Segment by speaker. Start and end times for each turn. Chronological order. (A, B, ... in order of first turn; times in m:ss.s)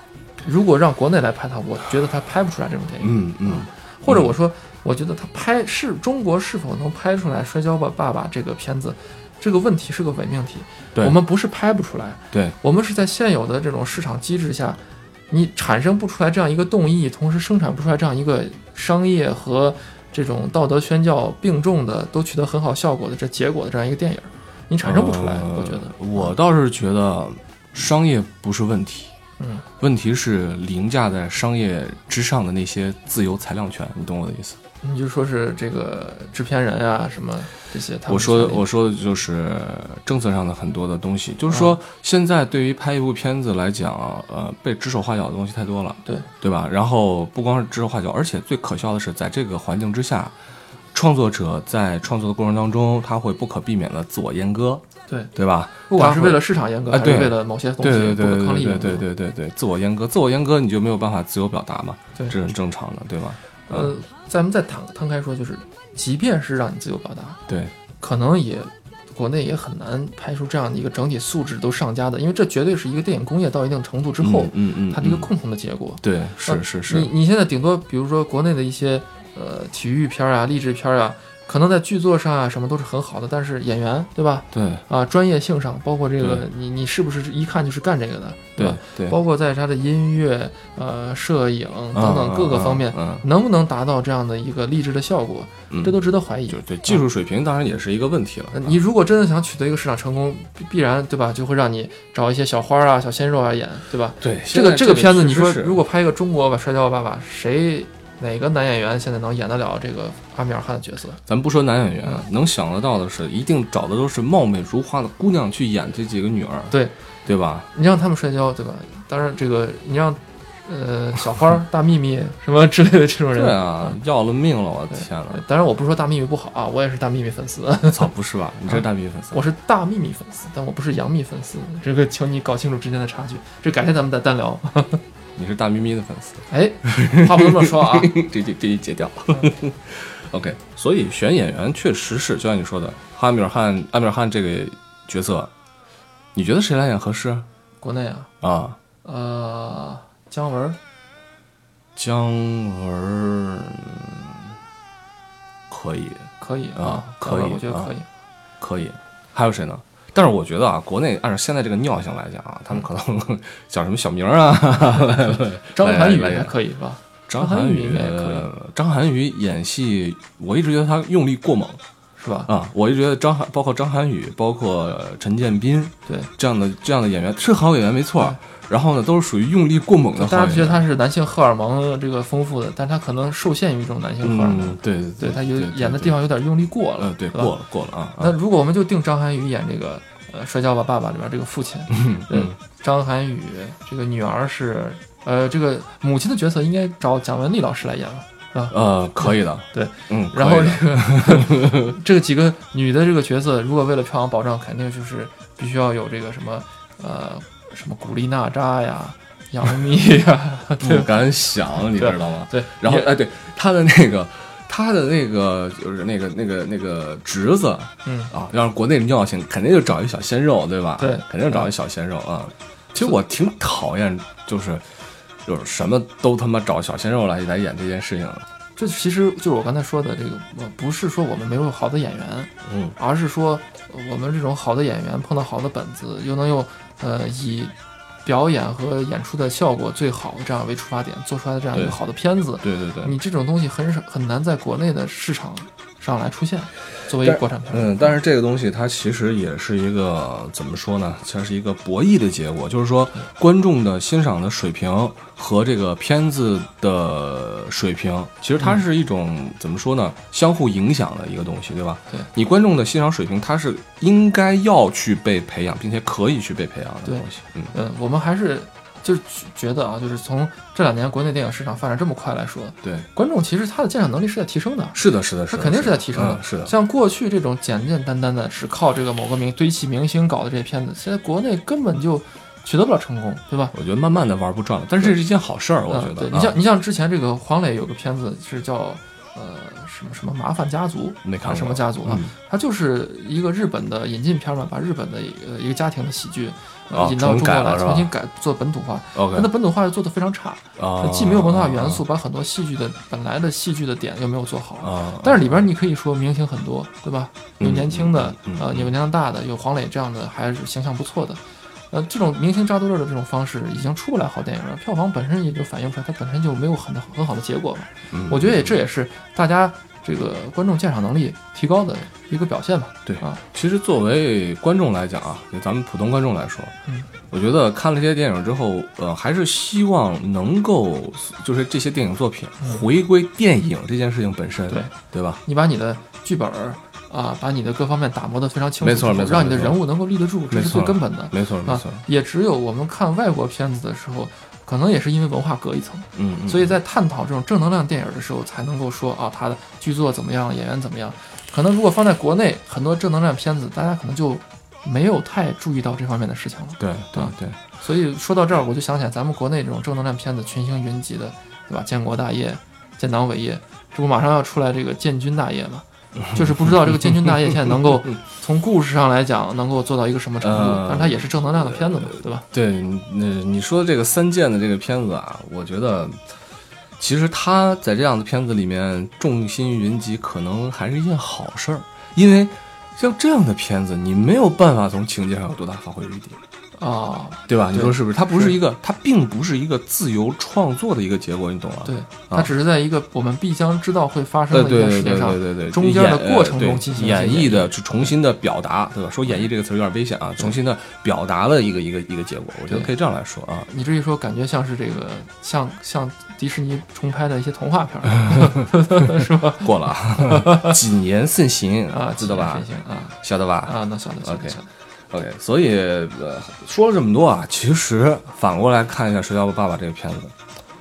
0:00.4-0:26.3 A
0:03.0-0:04.3 B
0:24.8-0:29.1 B
0:29.4-0:29.6 A
0:29.8-0:34.6 B
0:34.8-0:38.6 A
0:38.1-0:50.4 B
0:41.5-0:41.7 A
0:50.9-0:54.8 B
0:55.3-1:03.9 B
0:55.9-0:59.0 A
1:03.7-1:07.4 A
1:07.5-1:07.7 B
1:08.0-1:37.0 A
1:14.2-1:15.3 B
1:16.0-1:17.1 B
1:24.5-1:24.8 B
1:26.2-1:26.4 B
1:28.6-1:29.2 B
1:31.9-1:33.2 B
1:36.5-1:38.8 B
1:38.5-1:51.2 A
1:44.2-1:45.8 B
1:51.3-1:56.7 B
1:57.2-1:57.7 B
1:57.7-2:03.9 A
2:03.3-2:05.4 B
2:04.9-2:08.1 A
2:07.9-2:09.4 B
2:08.7-2:15.0 A
2:15.4-2:25.5 B
2:16.5-2:18.1 A
2:26.3-2:27.5 B
2:27.8-2:28.3 A
2:28.4-2:28.8 B
2:29.0-2:30.8 A
2:32.0-2:34.5 B
2:35.7-2:37.9 B
2:36.4-2:38.0 A
2:38.6-2:46.6 B
2:45.7-2:48.5 A
2:47.3-2:51.8 B
2:52.2-2:52.5 A
2:52.5-3:00.8 B
3:00.2-3:07.5 A
3:04.2-3:06.1 B
3:07.0-3:08.3 B
3:08.2-3:31.1 A
3:11.9-3:12.6 B
3:18.7-3:21.9 B
3:30.8-3:44.9 B
3:31.8-3:33.1 A
3:38.0-3:38.3 A
3:41.0-3:41.7 A
3:45.4-3:48.4 B
3:48.8-3:57.7 A
3:52.6-3:52.9 B
3:58.2-4:08.1 A
4:02.6-4:03.1 B
4:07.1-4:27.7 B
4:27.0-4:43.7 A
4:32.8-4:33.1 B
4:34.9-4:36.7 B
4:43.7-4:46.6 B
4:45.9-5:11.4 A
4:51.2-4:52.3 B
4:56.9-4:58.1 B
4:59.1-4:59.5 B
5:00.8-5:02.0 B
5:04.8-5:05.6 B
5:07.6-5:08.9 B
5:11.9-5:23.4 A
5:18.1-5:18.7 B
5:23.0-5:26.7 B
5:27.3-5:35.4 B
5:34.7-5:34.9 A
5:35.4-6:12.4 A
5:38.8-5:39.8 B
5:40.5-5:42.0 B
5:46.1-5:46.7 B
5:56.8-5:57.6 B
6:06.2-6:07.9 B
6:10.4-6:16.2 B
6:17.0-6:26.4 B
6:26.7-6:28.6 A
6:27.5-6:32.5 B
6:31.8-6:37.7 A
6:34.5-6:43.7 B
6:43.7-6:50.8 A
6:49.2-6:52.7 B
6:51.9-6:54.7 A
6:53.2-6:54.6 B
6:55.1-7:00.3 B